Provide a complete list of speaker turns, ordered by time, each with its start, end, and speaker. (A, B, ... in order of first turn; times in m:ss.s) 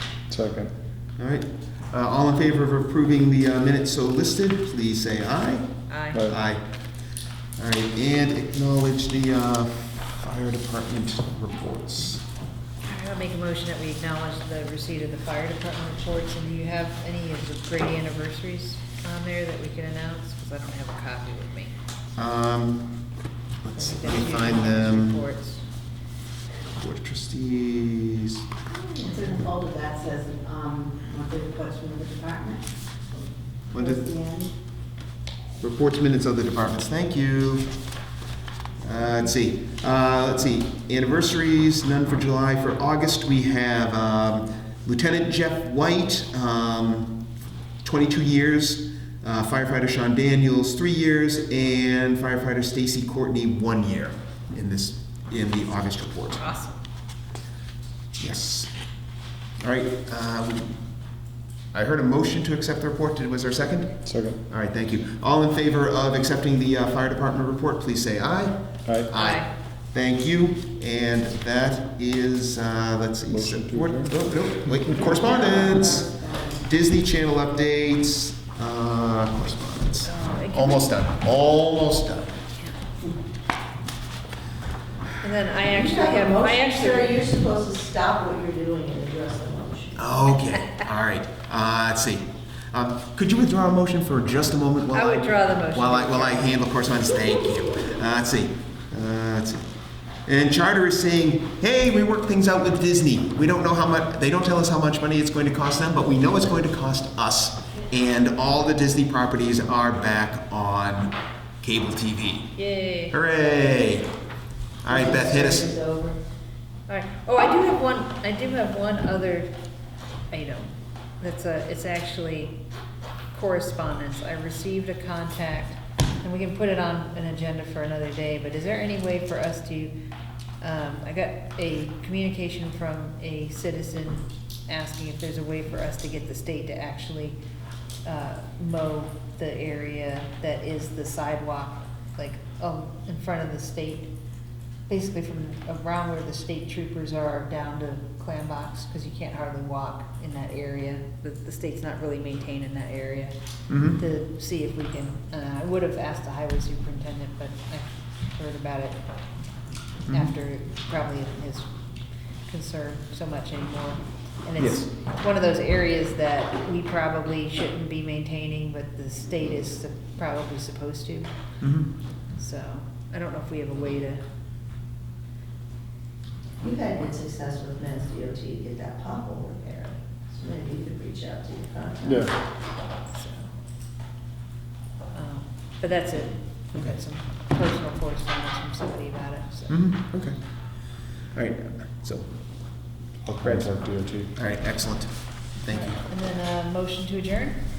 0:00.3-0:00.7 A
0:01.2-0:05.7 B
0:05.9-0:06.2 C
0:06.2-0:06.6 B
0:07.6-0:12.2 B
0:12.8-0:21.7 C
0:22.2-0:23.0 B
0:23.6-0:25.2 B
0:23.7-0:25.6 C
0:26.8-0:28.4 B
0:28.7-0:32.6 D
0:33.7-0:34.1 B
0:33.7-0:34.5 D
0:35.6-0:37.7 B
0:38.8-0:47.2 B
0:47.8-0:56.5 B
0:56.4-0:56.8 C
0:58.2-0:58.7 B
0:59.6-1:00.7 B
1:01.7-1:08.6 B
1:04.0-1:04.4 A
1:09.1-1:22.3 B
1:09.1-1:09.5 C
1:13.3-1:14.1 A
1:14.9-1:16.6 D
1:20.0-1:20.9 C
1:25.2-1:27.2 C
1:25.7-1:30.0 D
1:29.9-1:39.6 B
1:34.9-1:36.6 C
1:40.2-1:52.5 B
1:52.6-1:53.1 C
1:53.1-1:54.1 B
1:54.8-1:55.7 B
1:54.9-1:56.2 D
1:56.9-1:59.5 C
2:00.3-2:02.6 C
2:03.3-2:09.9 C
2:10.6-2:17.4 C
2:18.0-2:24.1 C
2:24.9-2:33.3 C
2:33.7-2:34.0 B
2:34.0-2:39.0 C
2:40.1-2:41.7 C
2:42.5-2:51.3 C
2:44.6-2:44.9 B
2:51.6-2:51.9 B
2:52.4-2:54.2 C
2:56.6-3:02.3 D
3:02.0-3:02.3 A
3:03.0-3:03.5 C
3:05.1-3:09.8 C
3:09.7-3:10.3 B
3:11.3-3:12.2 B
3:13.3-3:13.7 B
3:13.4-3:14.3 A
3:14.3-3:15.1 B
3:15.6-3:16.0 B
3:15.7-3:17.6 C